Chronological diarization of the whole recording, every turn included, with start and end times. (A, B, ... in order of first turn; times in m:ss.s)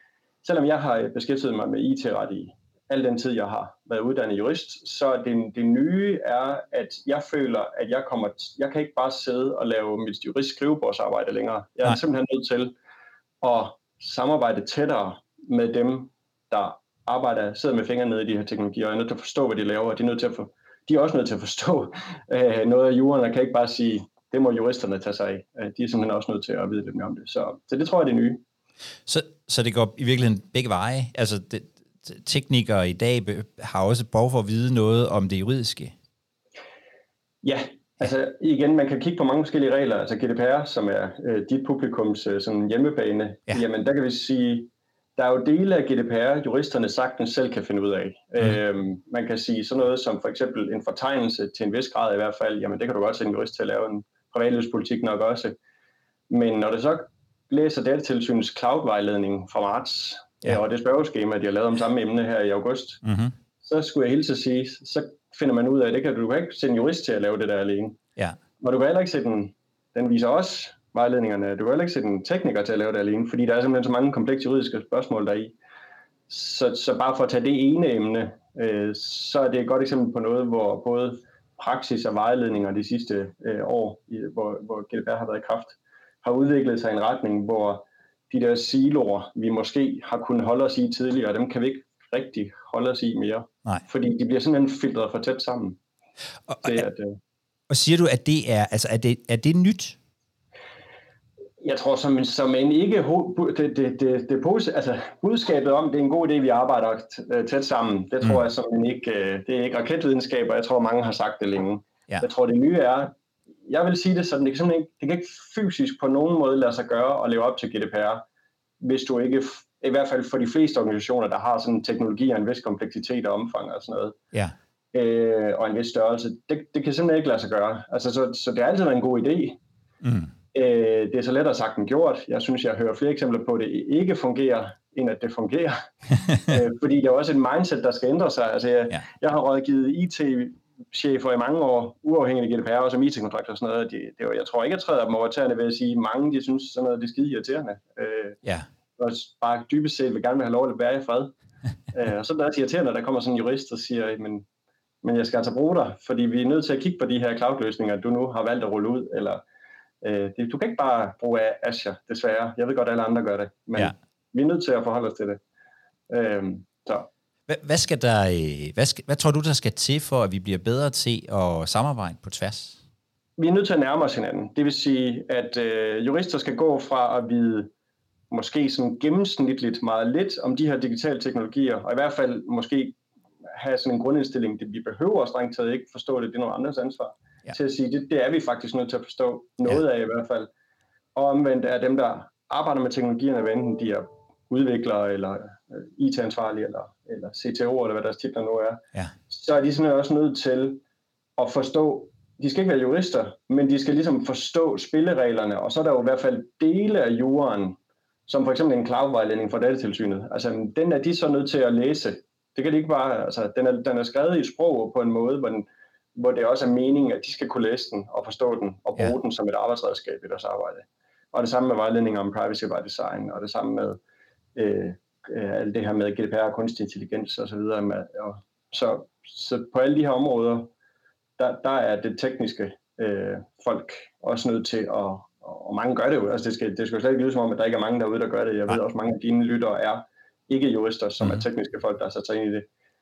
0:00.4-0:12.7 A
0:13.4-0:28.4 A
0:29.0-0:35.9 B
0:37.4-0:55.5 A
0:56.3-1:03.0 A
1:03.0-1:03.3 B
1:03.6-1:08.0 A
1:08.6-1:15.5 A
1:16.3-1:35.8 A
1:36.5-1:36.8 B
1:36.6-1:37.2 A
1:37.7-1:40.0 B
1:41.6-1:53.1 A
1:53.7-1:58.2 A
1:58.8-2:04.2 A
2:04.9-2:09.6 A
2:10.0-2:10.3 B
2:10.5-2:28.4 A
2:29.0-2:31.3 A
2:31.9-2:34.4 A
2:35.0-2:39.4 A
2:40.0-2:45.4 A
2:46.1-2:47.1 A
2:47.5-2:52.8 B
2:53.4-2:57.7 A
2:58.3-3:03.0 A
3:03.5-3:10.5 A
3:11.1-3:20.8 A
3:21.4-3:44.0 A
3:44.5-3:50.7 A
3:51.4-4:02.7 A